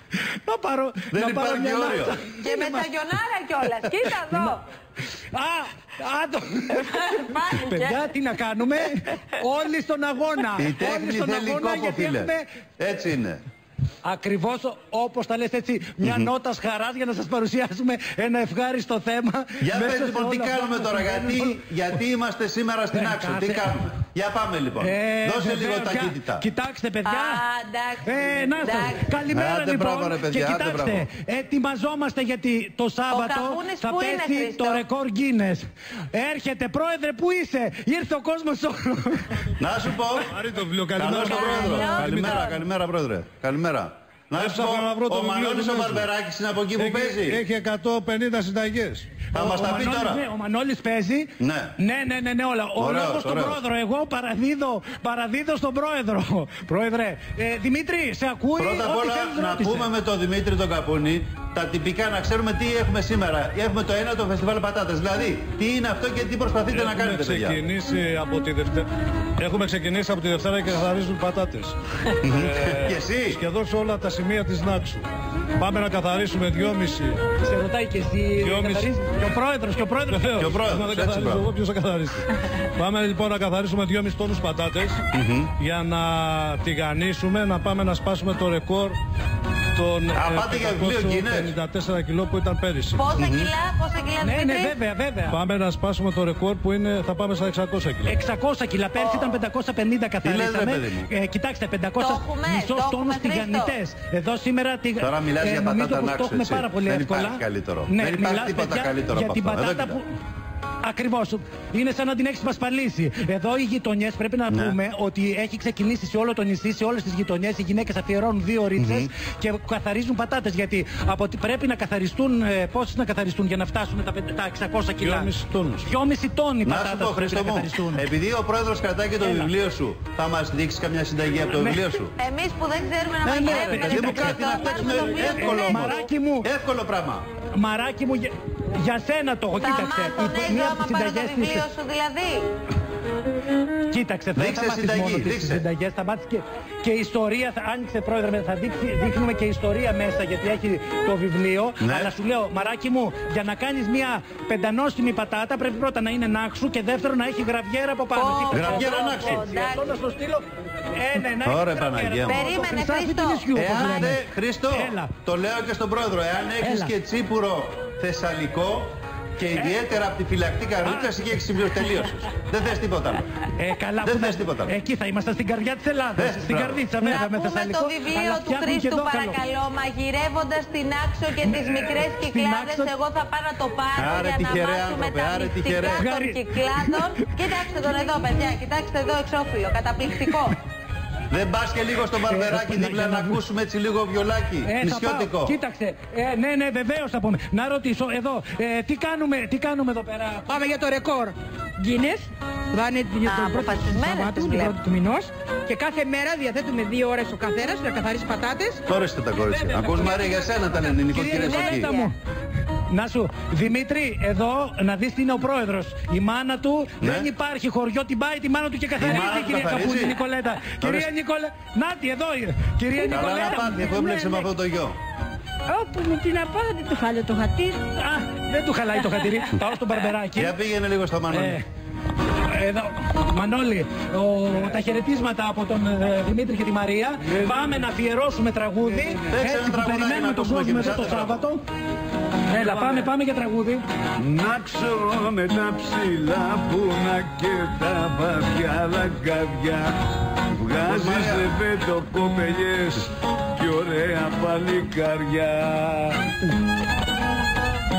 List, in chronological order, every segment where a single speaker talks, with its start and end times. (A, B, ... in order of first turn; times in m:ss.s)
0:00.2-0:02.9 A
0:01.1-0:02.2 B
0:02.1-0:04.6 C
0:03.8-0:04.6 A
0:05.1-0:12.5 A
0:06.7-0:08.1 C
0:10.6-0:13.4 B
0:14.0-0:21.7 A
0:16.0-0:16.3 B
0:19.6-0:26.4 B
0:22.9-0:23.7 A
0:24.8-0:27.4 A
0:27.0-0:29.2 C
0:28.0-0:39.5 A
0:29.3-0:31.1 B
0:33.1-0:34.8 C
0:39.6-0:40.2 B
0:40.3-0:42.2 D
0:41.0-0:47.4 B
0:41.2-0:42.6 C
0:44.4-0:46.1 D
0:46.8-0:49.3 D
0:49.3-0:50.2 B
0:49.3-0:59.9 A
0:51.4-0:51.7 B
0:52.8-0:53.6 B
0:58.6-1:07.6 B
1:06.7-1:17.2 D
1:12.2-1:13.4 B
1:17.4-1:20.3 A
1:18.4-1:18.9 D
1:20.1-1:25.0 D
1:20.4-1:21.4 B
1:25.1-1:25.5 B
1:25.6-1:29.0 D
1:29.7-1:33.1 D
1:30.1-1:31.5 B
1:32.9-1:34.7 C
1:33.2-1:33.5 B
1:34.2-1:35.4 A
1:35.3-1:38.1 D
1:38.0-1:50.1 A
1:39.0-1:39.3 B
1:40.2-1:41.1 B
1:42.0-1:43.7 C
1:45.0-1:50.0 B
1:50.8-2:05.3 A
1:54.5-1:54.7 B
1:58.8-1:59.1 B
2:05.0-2:05.9 D
2:05.8-2:08.1 A
2:06.6-2:12.1 B
2:09.2-2:09.5 A
2:11.5-2:12.0 A
2:12.2-2:16.0 C
2:13.2-2:16.5 A
2:13.3-2:17.2 B
2:17.5-2:21.6 A
2:19.6-2:22.5 C
2:23.9-2:45.1 A
2:24.3-2:25.6 B
2:31.8-2:32.1 B
2:38.2-2:39.8 C
2:38.5-2:39.4 B
2:41.4-2:42.4 B
2:42.2-2:44.1 C
2:43.5-2:53.3 B
2:46.6-2:46.9 A
2:50.8-2:51.4 A
2:53.5-2:59.4 A
2:54.0-2:54.7 B
2:56.2-2:56.9 B
2:57.0-3:10.6 C
3:01.4-3:02.9 A
3:03.9-3:06.0 B
3:06.0-3:07.6 A
3:11.3-3:15.5 B
3:12.2-3:13.4 A
3:14.6-3:20.5 A
3:20.5-3:28.8 E
3:23.2-3:24.8 C
3:28.9-3:32.0 B
3:30.0-3:30.4 C
3:31.1-3:32.1 A
3:31.2-3:32.1 C
3:32.9-3:44.3 A
3:37.0-3:37.3 B
3:39.0-3:40.2 B
3:40.8-3:41.1 B
3:43.0-3:45.0 B
3:43.2-3:44.0 E
3:45.7-3:47.8 E
3:48.0-3:50.6 A
3:50.3-3:51.6 B
3:51.3-3:51.6 A
3:52.3-4:01.6 A
3:59.3-4:01.4 B
4:02.5-4:03.8 A
4:02.6-4:03.0 F
4:04.2-4:16.3 F
4:10.8-4:11.5 B